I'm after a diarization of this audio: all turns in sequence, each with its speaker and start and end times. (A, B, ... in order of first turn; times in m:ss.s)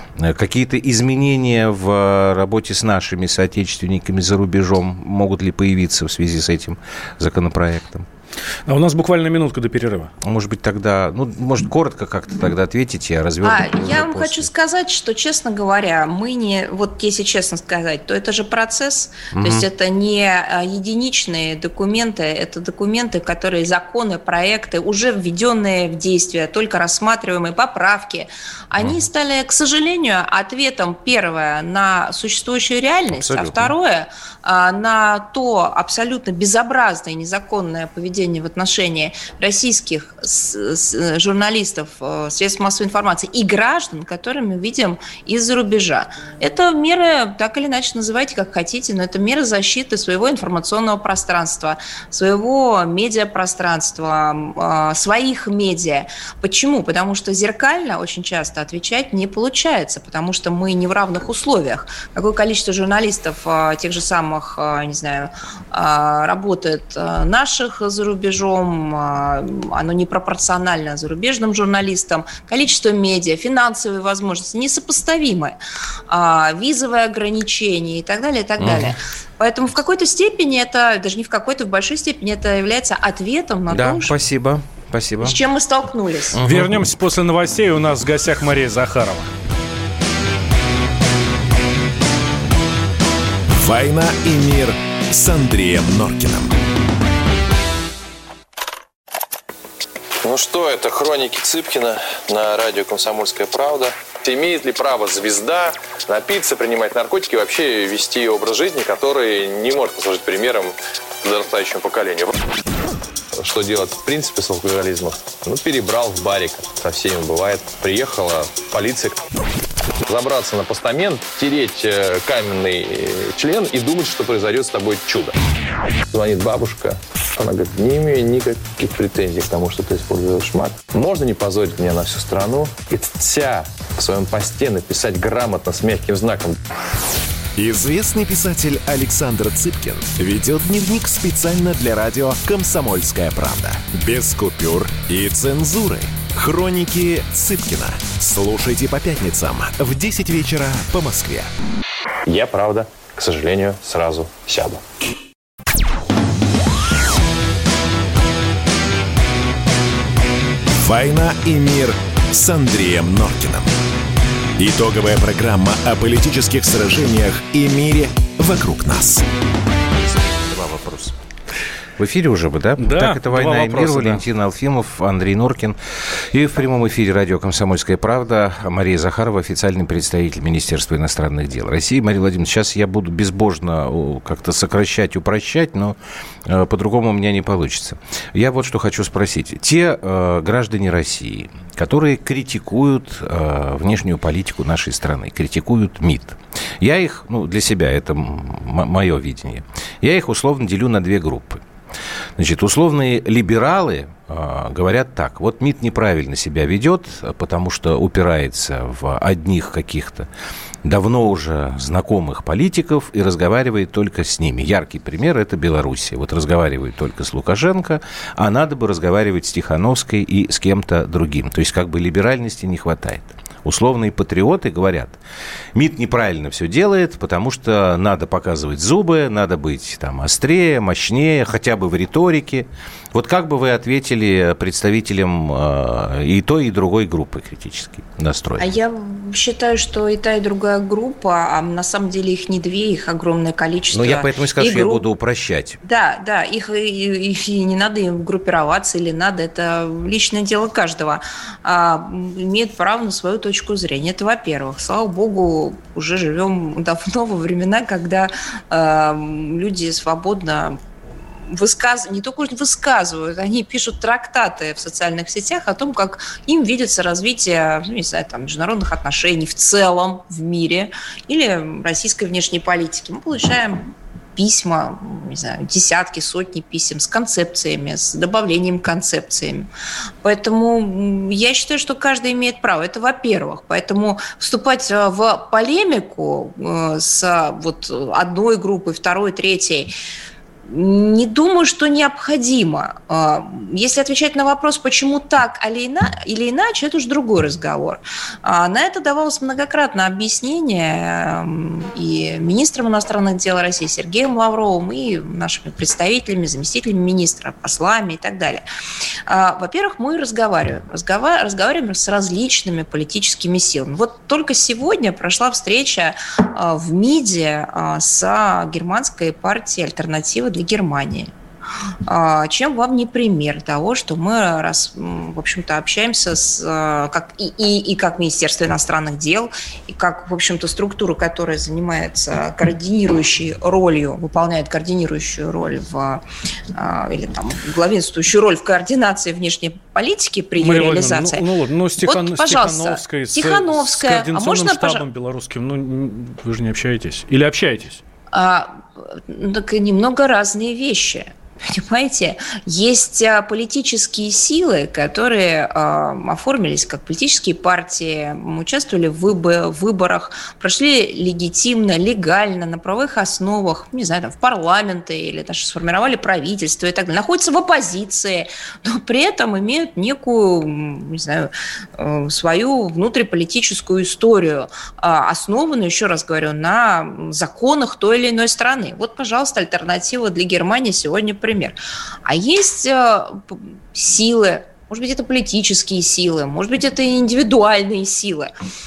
0:00.2-0:08.0 A
0:08.7-0:10.1 B
0:10.2-0:14.5 A
0:13.4-1:15.6 C
0:19.3-0:19.7 A
0:28.8-0:29.0 A
0:33.1-0:33.7 A
1:16.1-1:24.1 C
1:18.6-1:19.0 A
1:23.7-1:25.4 A
1:25.2-1:26.4 C
1:26.3-1:26.9 A
1:26.4-1:29.3 B
1:33.5-1:36.5 D
1:40.2-1:52.3 E
1:53.4-1:59.2 E
2:00.1-2:05.3 E
2:06.1-2:16.6 E
2:17.6-2:31.5 D
2:32.2-2:34.8 E
2:40.8-2:43.7 D
2:44.6-2:49.2 D
2:50.0-2:51.1 A
2:52.0-3:21.6 A
2:52.8-2:54.2 B
3:22.4-3:30.3 A
3:30.8-3:45.2 A
3:45.7-3:58.7 A
3:58.6-4:05.0 C
4:03.9-4:05.8 A
4:05.8-4:20.8 C
4:21.5-4:39.7 C
4:40.2-4:49.9 C
4:50.7-5:08.6 C
5:09.3-5:21.3 C
5:22.0-5:36.2 C
5:36.7-5:41.4 C
5:40.6-5:48.0 B
5:42.0-5:45.0 C
5:48.3-6:28.5 C